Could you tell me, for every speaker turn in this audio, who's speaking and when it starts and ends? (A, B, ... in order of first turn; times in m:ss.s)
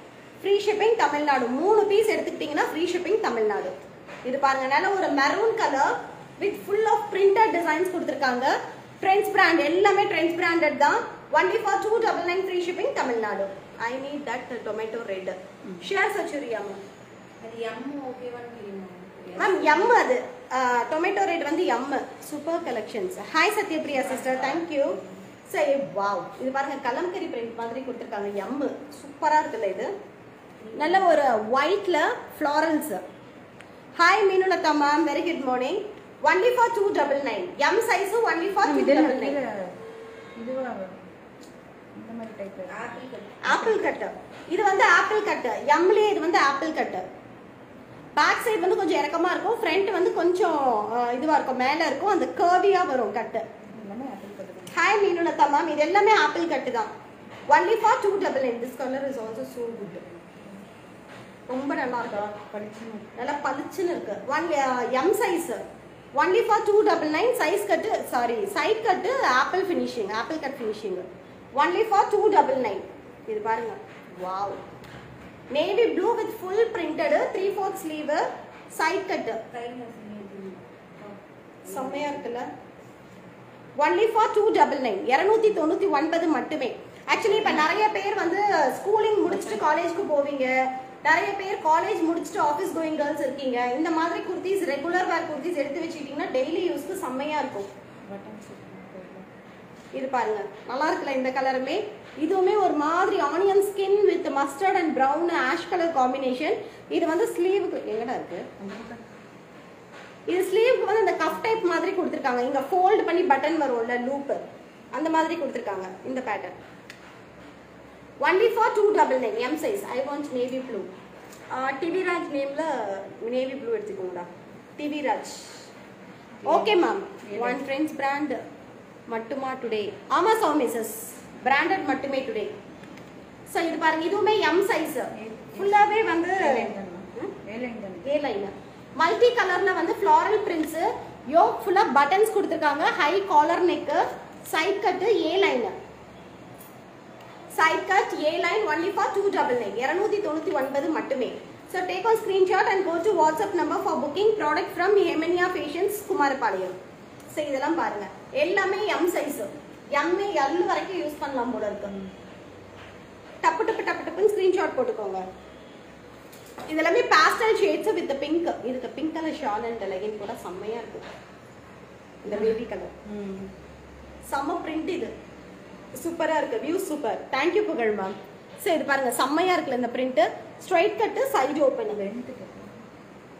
0:00.4-0:16.8 A
0:17.4-0:20.0 B
0:19.3-0:29.9 A
0:30.6-0:31.1 B
0:30.7-0:33.0 A
0:34.0-0:39.4 A
0:38.6-0:39.7 C
0:40.4-0:41.0 C
0:42.0-0:42.8 C
0:42.7-0:43.8 B
0:43.4-0:47.0 A
0:48.2-0:53.4 A
0:53.8-0:54.8 C
0:54.7-0:56.9 A
0:57.5-1:00.0 A
1:01.5-1:02.3 A
1:02.0-1:03.1 C
1:03.2-1:05.6 A
1:06.2-1:14.6 A
1:15.5-1:19.4 A
1:19.5-1:22.2 B
1:21.7-1:22.5 A
1:23.8-1:37.7 A
1:38.1-1:39.3 C
1:39.9-1:48.5 A
1:48.6-1:49.0 C
1:50.3-1:54.4 A
1:54.9-1:56.5 A
1:58.2-2:00.9 A
2:01.5-2:04.3 A
2:04.8-2:05.6 A
2:06.4-2:07.6 C
2:06.4-2:08.4 A
2:09.1-2:12.5 A
2:13.5-2:17.3 A
2:15.2-2:18.1 C
2:18.0-2:25.7 A
2:27.5-2:36.8 A
2:37.3-2:42.0 A
2:43.4-2:45.2 A
2:46.7-2:51.1 A
2:52.2-2:52.9 A
2:52.3-2:53.5 C
2:54.3-2:55.1 A
2:56.0-3:02.0 A
3:01.9-3:02.7 C